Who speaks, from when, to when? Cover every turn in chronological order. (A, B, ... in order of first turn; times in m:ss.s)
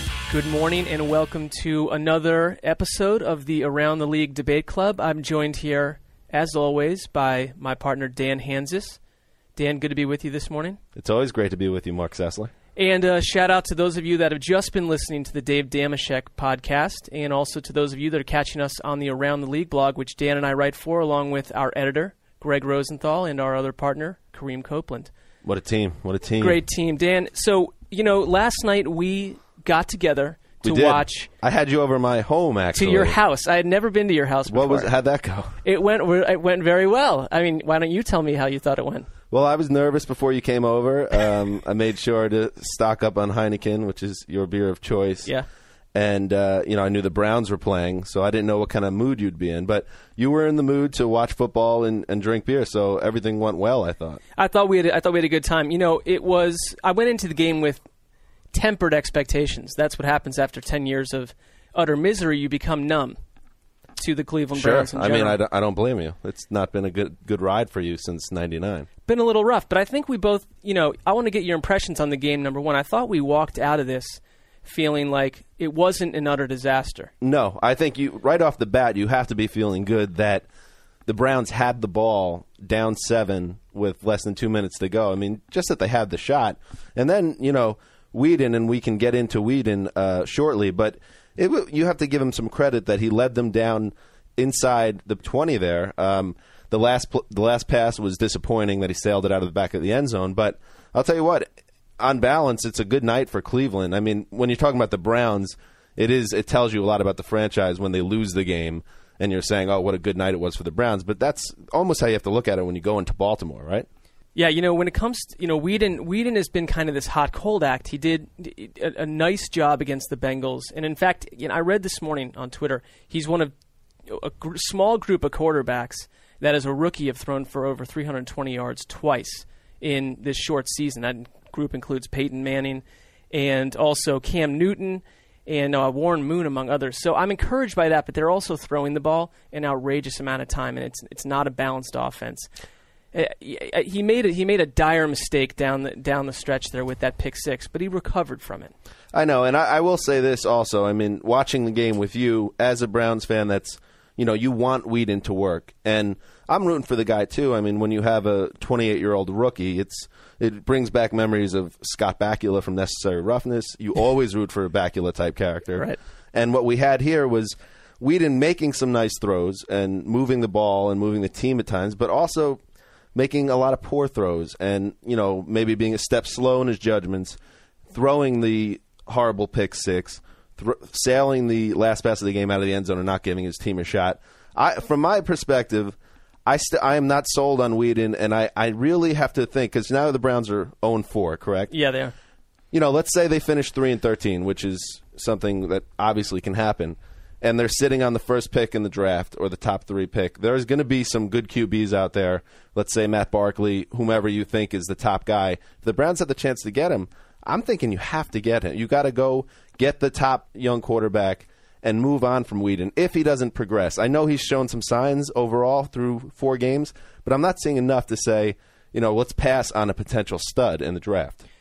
0:00.3-0:09.0 A
0:09.6-0:10.8 A
0:11.0-0:12.5 B
0:12.8-0:25.1 A
0:25.4-0:26.6 B
0:26.4-0:31.3 A
0:30.6-0:33.2 B
0:32.7-0:34.9 A
0:34.5-0:35.6 B
0:35.6-0:39.1 A
0:39.3-0:45.3 B
0:45.9-0:54.2 B
0:54.4-0:57.8 A
0:58.5-1:03.2 A
1:04.0-1:05.4 A
1:04.5-1:08.9 B
1:09.1-1:17.1 A
1:17.2-1:20.4 B
1:21.1-1:53.9 B
1:54.3-2:03.5 A
2:04.1-2:22.5 A
2:23.1-2:28.7 A
2:29.1-2:52.6 B
2:53.1-2:57.4 B
2:57.9-3:11.7 B
3:11.7-3:12.1 A
3:12.7-3:41.4 B